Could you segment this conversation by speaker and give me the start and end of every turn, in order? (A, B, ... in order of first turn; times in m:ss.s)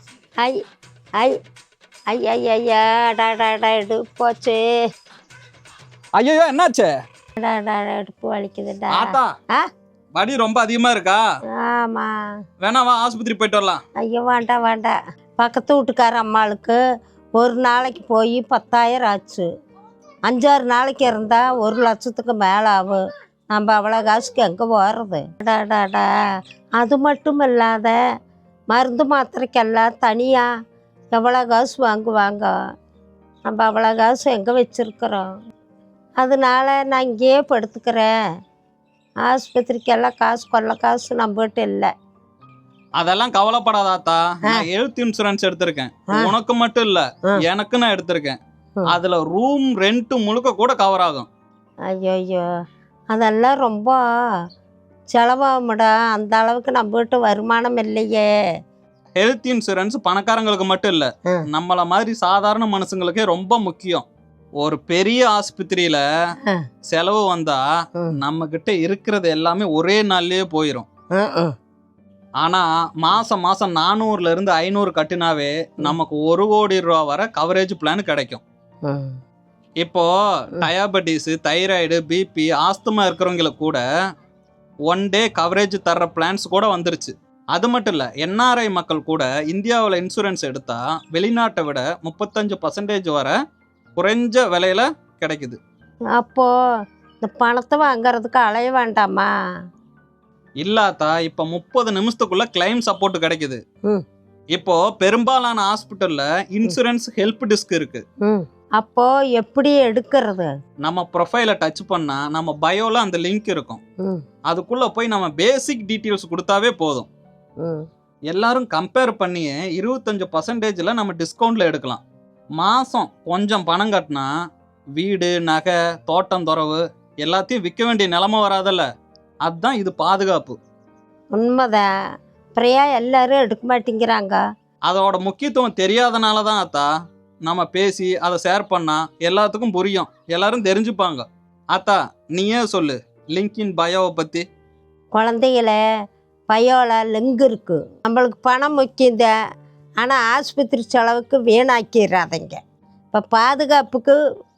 0:02.1-0:04.6 A
0:06.2-0:06.9 B
0:07.4-0:09.7 A
0:08.9-0:09.3 B
0:10.2-0:11.2 B
0:11.6-0:12.1 A
0:12.6-0:13.8 B
0:14.0-0:16.8 A
0:17.4-0:19.5 A
0:20.3-0:23.0 A
0:23.5-0:26.1 A
0:26.8-0:28.0 A
0:28.7-0:30.5 A
0:31.1-0:32.5 A
0:33.5-0:35.3 A
0:36.2-0:38.1 A
0:39.3-0:41.9 A
0:43.0-0:48.4 B
0:48.9-0:51.3 B
0:51.9-0:52.4 A
0:53.1-0:54.0 A
0:55.1-0:58.3 A
0:59.2-1:04.1 B
1:04.6-1:06.0 B
1:06.9-1:10.9 B
1:11.2-1:11.6 A
1:12.4-1:18.4 B
1:18.9-1:19.2 A
1:19.8-1:23.8 B
1:24.9-1:33.4 B
1:34.0-1:35.6 B
1:36.2-1:36.5 A
1:37.2-1:39.3 A
1:40.6-1:43.6 B
1:44.6-1:48.0 B
1:48.2-1:50.5 A
1:50.8-1:53.8 B
1:54.5-1:57.1 B
1:58.3-2:02.0 B
2:02.6-2:04.3 B
2:05.0-2:08.9 B
2:09.4-2:10.6 B
2:11.4-2:11.9 A
2:12.6-2:14.4 A
2:14.9-2:16.9 B
2:17.4-2:24.5 B
2:25.2-2:25.8 A
2:26.5-2:29.3 A
2:30.0-2:32.6 A
2:33.1-2:34.2 A